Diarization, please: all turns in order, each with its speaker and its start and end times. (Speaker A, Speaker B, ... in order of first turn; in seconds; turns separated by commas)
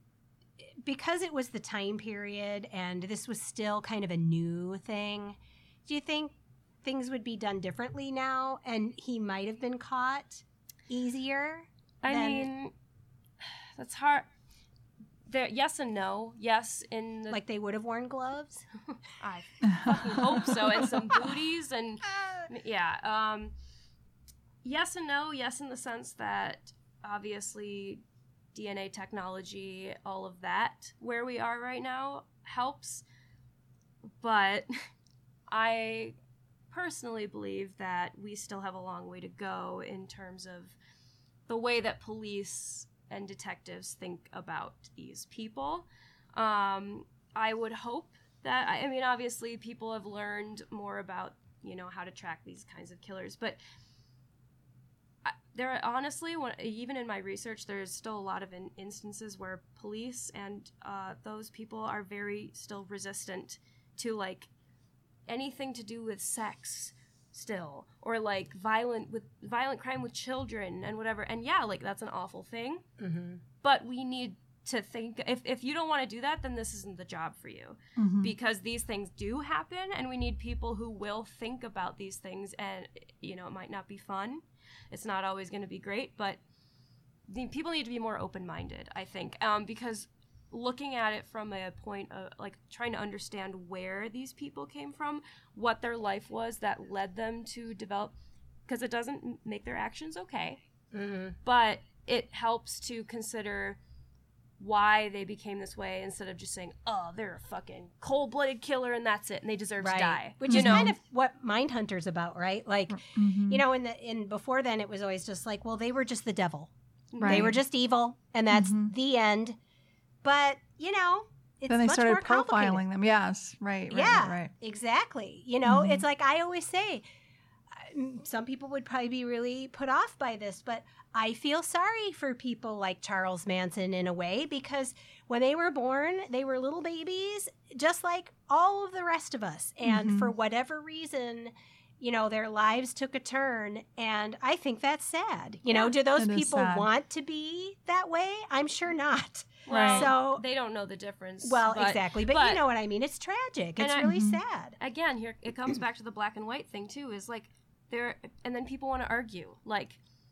Speaker A: 0.6-12.5, Speaker B: 12.0-12.7, Speaker B: 13.8-14.3, Speaker B: 15.3-17.4, Speaker A: 17.3-18.6, Speaker B: 19.2-23.5, Speaker C: 19.6-20.6, Speaker B: 24.6-28.0, Speaker B: 28.5-33.0, Speaker B: 34.2-34.7, Speaker B: 35.5-36.1, Speaker B: 36.7-40.8, Speaker B: 41.5-53.6, Speaker B: 55.2-64.5, Speaker B: 65.3-72.8, Speaker A: 73.0-73.4, Speaker B: 73.6-86.4, Speaker C: 78.0-78.3, Speaker B: 87.3-98.1, Speaker B: 98.7-100.6, Speaker A: 100.9-101.3, Speaker B: 101.4-103.8, Speaker B: 104.6-110.9, Speaker A: 109.8-116.7, Speaker C: 110.5-110.9, Speaker C: 112.9-113.6, Speaker B: 117.1-117.5, Speaker C: 117.2-117.6, Speaker A: 117.2-119.6, Speaker C: 118.5-118.9, Speaker A: 120.2-122.8, Speaker C: 121.7-124.5, Speaker A: 123.9-127.0, Speaker C: 125.6-126.0, Speaker A: 127.7-150.4, Speaker C: 139.8-140.3, Speaker C: 146.2-146.9, Speaker B: 149.7-152.6, Speaker C: 149.7-150.1, Speaker A: 151.4-154.8, Speaker B: 153.8-154.1, Speaker C: 154.0-154.4, Speaker B: 154.8-160.0